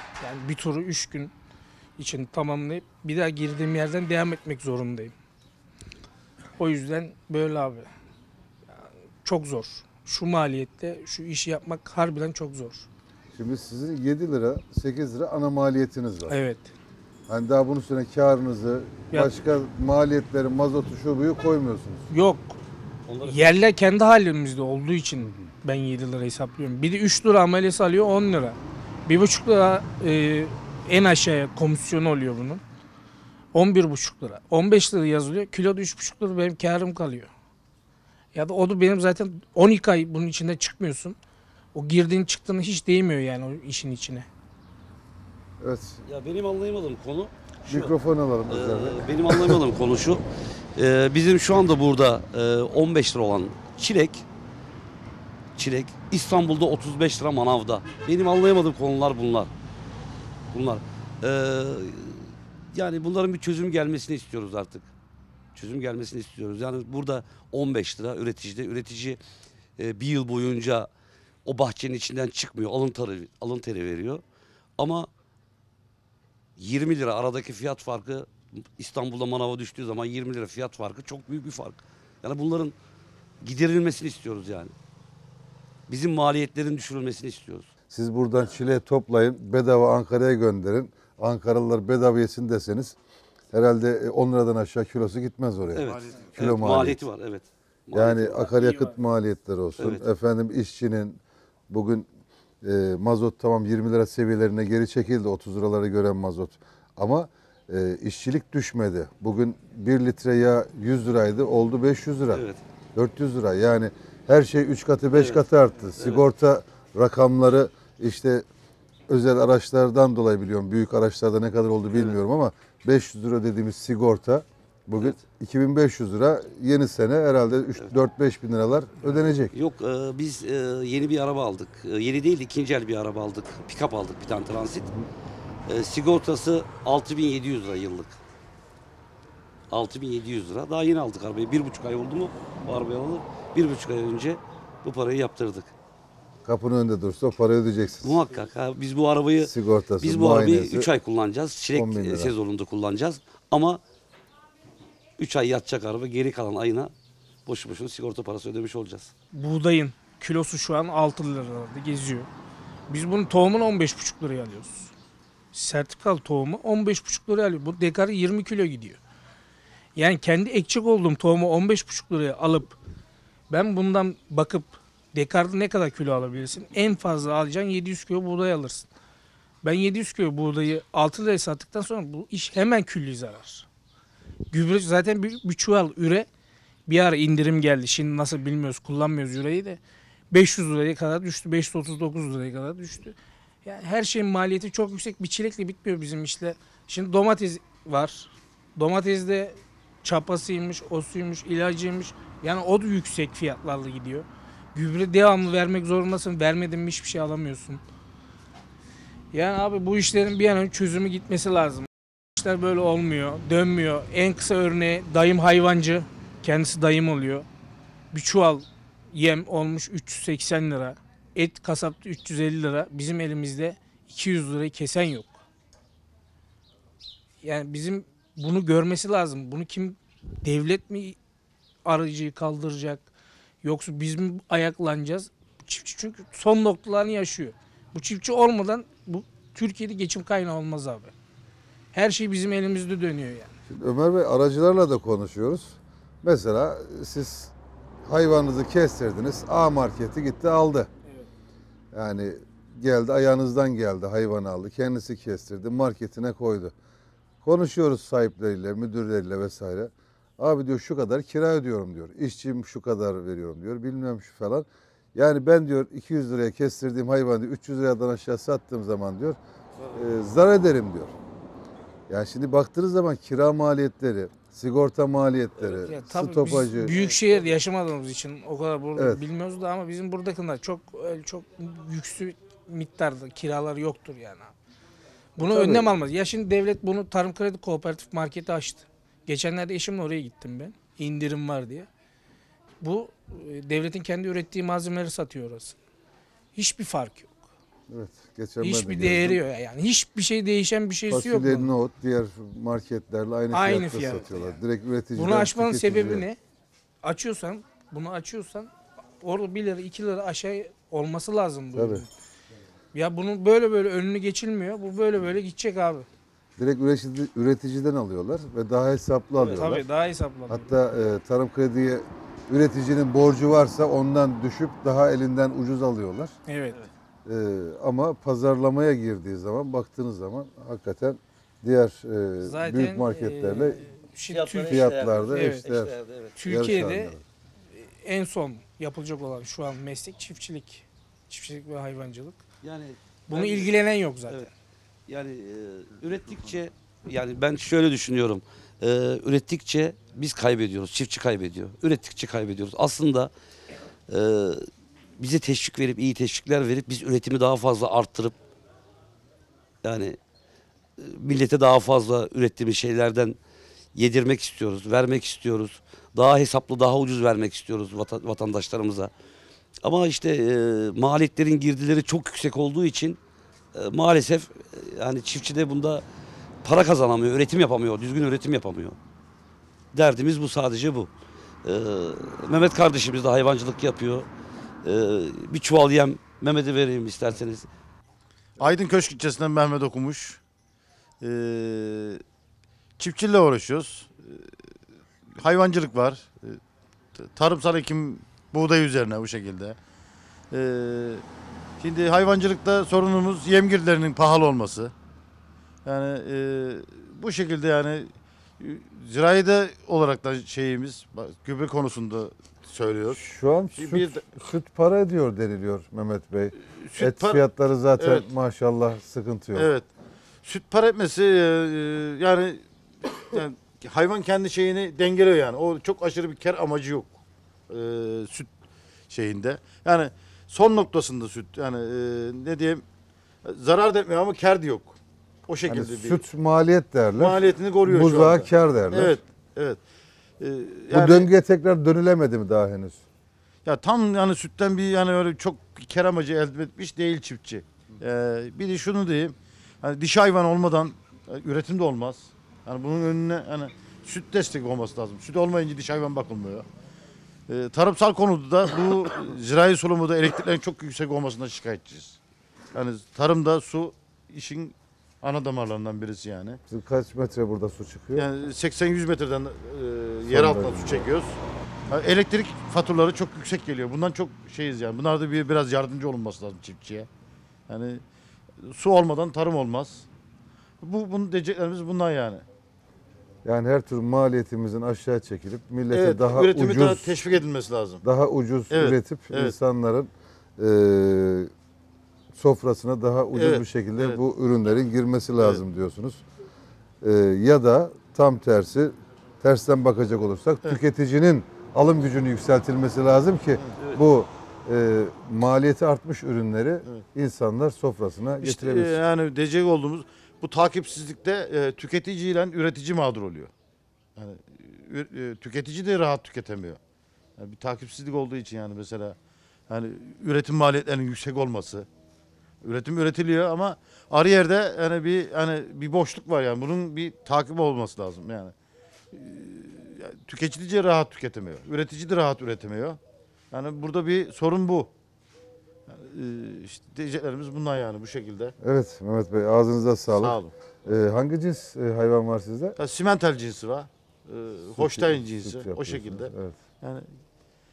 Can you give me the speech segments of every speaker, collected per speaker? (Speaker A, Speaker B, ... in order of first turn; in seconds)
Speaker A: 0.2-1.3, 2.0-5.1, 6.6-7.9, 9.2-12.9, 16.3-16.7, 22.1-22.6, 23.2-32.6, 33.5-37.3, 38.3-41.2, 41.7-44.3, 98.4-98.9, 159.3-162.3, 162.9-164.9, 165.5-169.0, 170.0-172.8, 173.5-178.9, 179.6-183.7, 184.5-186.3, 186.9-189.8, 190.3-207.8, 209.3-217.5, 218.1-225.3, 227.4-231.2, 231.8-233.1, 233.6-241.1, 241.9-243.5, 275.6-284.5, 285.4-291.9, 292.8-295.8, 296.6-297.4, 298.6-301.7, 303.5-304.3, 305.1-306.4, 307.0-312.1, 312.9-316.1, 319.5-320.7, 326.5-326.8, 332.4-335.6, 336.4-337.1, 337.8-342.4, 343.3-344.5
Speaker B: 13.3-16.4, 17.3-22.1, 25.2-25.5, 45.6-46.0, 47.7-49.6, 87.9-93.0, 93.5-97.0, 97.9-102.1, 102.6-112.4, 113.0-118.4, 119.1-129.5, 146.4-148.2, 149.4-150.9, 151.7-152.3, 243.7-247.5, 248.1-250.9, 251.9-256.7, 257.4-269.4, 269.9-271.1, 272.1-276.9, 279.0-279.2, 285.4-285.9, 297.9-299.4, 301.1-306.3, 311.8-312.0, 316.6-319.9, 320.5-326.3, 327.3-333.8, 334.7-335.9, 336.4-337.2, 413.1-419.7, 435.7-439.2, 440.9-443.0, 466.7-468.3, 470.3-471.1, 483.4-487.2, 488.0-491.5, 492.3-496.2, 497.0-509.0, 538.6-542.8, 544.8-546.6
Speaker C: 23.1-23.5, 46.1-47.9, 48.5-50.2, 50.8-54.2, 55.6-59.5, 60.5-64.9, 65.5-69.2, 69.8-70.9, 71.5-74.2, 74.8-75.1, 76.6-82.7, 83.4-84.7, 85.9-87.7, 95.7-98.4, 99.8-100.0, 112.3-112.6, 115.1-115.4, 116.0-116.2, 129.5-134.9, 135.7-138.2, 139.7-145.7, 148.0-153.8, 155.2-156.9, 157.5-159.1, 319.4-319.8, 334.3-336.4, 342.6-343.7, 345.1-353.3, 354.1-354.7, 355.2-358.4, 359.8-360.2, 361.0-363.4, 363.9-369.1, 369.8-373.2, 373.7-376.0, 376.6-379.0, 379.9-381.1, 381.6-384.3, 384.8-387.7
Speaker D: 95.9-96.3, 388.6-390.4, 391.2-392.2, 393.0-394.6, 395.4-396.6, 397.2-399.8, 400.5-401.2, 401.8-404.9, 405.9-413.2, 413.8-414.3, 416.8-417.4, 418.0-418.3, 419.6-419.9, 420.4-427.1, 427.7-428.5, 429.1-432.8, 433.4-436.2, 437.2-439.8, 440.4-441.3, 443.6-456.7, 457.5-462.2, 462.7-466.6, 468.1-477.1, 477.7-478.0, 478.6-480.1, 480.8-482.4, 485.9-488.0, 488.7-489.6, 493.3-494.2, 508.4-513.5, 514.2-516.8, 517.4-519.2, 519.7-521.9, 522.6-528.5, 529.1-533.0, 533.5-534.9, 535.9-538.5, 540.1-540.5, 542.8-546.3, 546.8-547.1